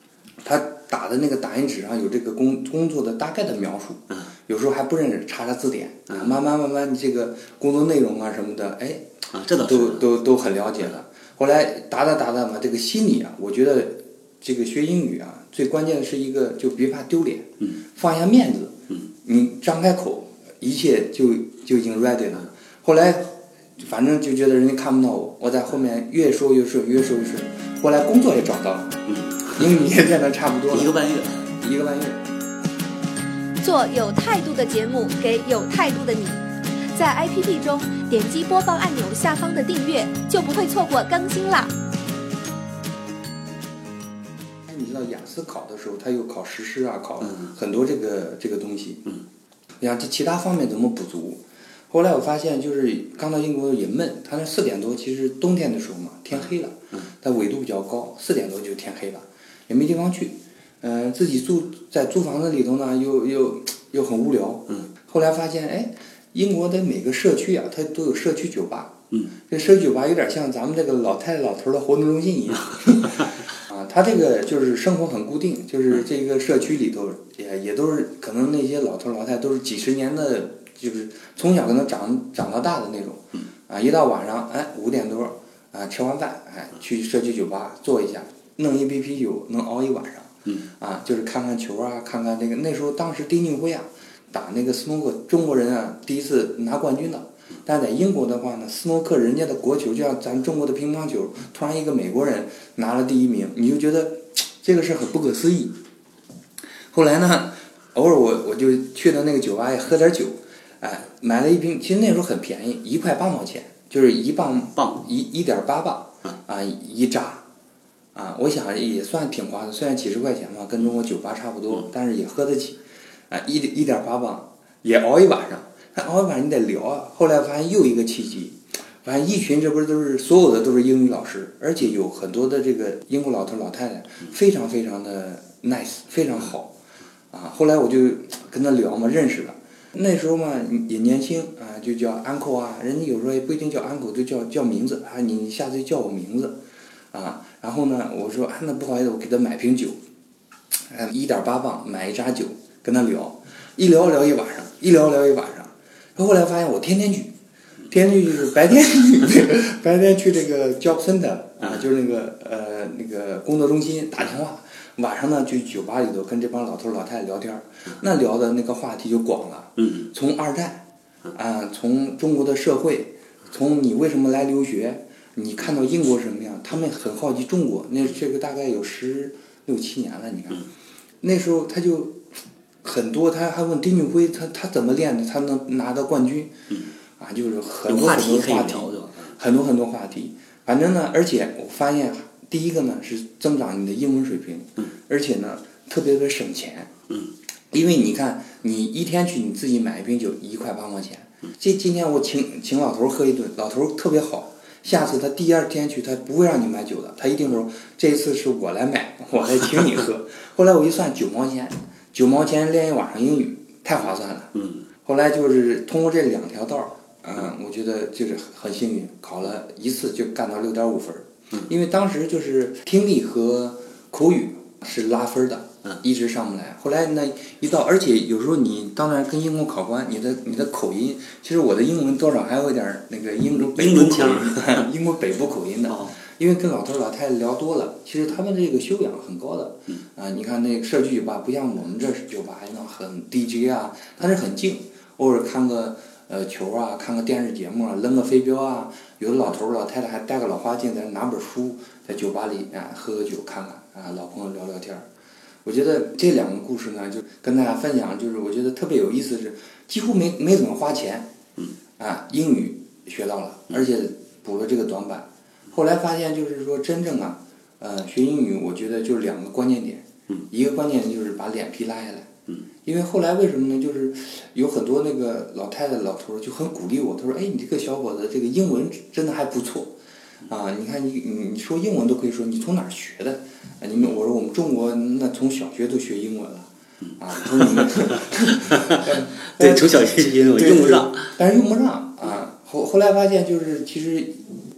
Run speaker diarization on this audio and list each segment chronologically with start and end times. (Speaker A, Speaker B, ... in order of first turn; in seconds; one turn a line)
Speaker A: 0.4-9.1
Speaker B: 9.3-10.1
Speaker A: 9.7-30.9
Speaker B: 29.1-29.6
Speaker B: 30.7-31.4
Speaker A: 31.6-32.2
Speaker C: 33.6-41.7
Speaker A: 44.7-49.0
Speaker A: 49.8-69.0
Speaker A: 69.5-105.8
Speaker A: 106.9-117.4
Speaker A: 118.1-136.7
Speaker A: 137.3-146.6
Speaker A: 147.1-150.0
Speaker A: 150.9-157.3
Speaker A: 157.9-180.7
Speaker A: 181.2-182.3
Speaker A: 182.8-186.5
Speaker A: 187.2-196.9
Speaker B: 187.9-189.3
Speaker A: 197.7-255.1
Speaker B: 233.6-234.8
Speaker B: 235.9-236.1
Speaker A: 255.7-261.3
Speaker A: 262.0-272.3
Speaker A: 272.9-279.9
Speaker A: 280.5-294.4
Speaker B: 288.7-291.3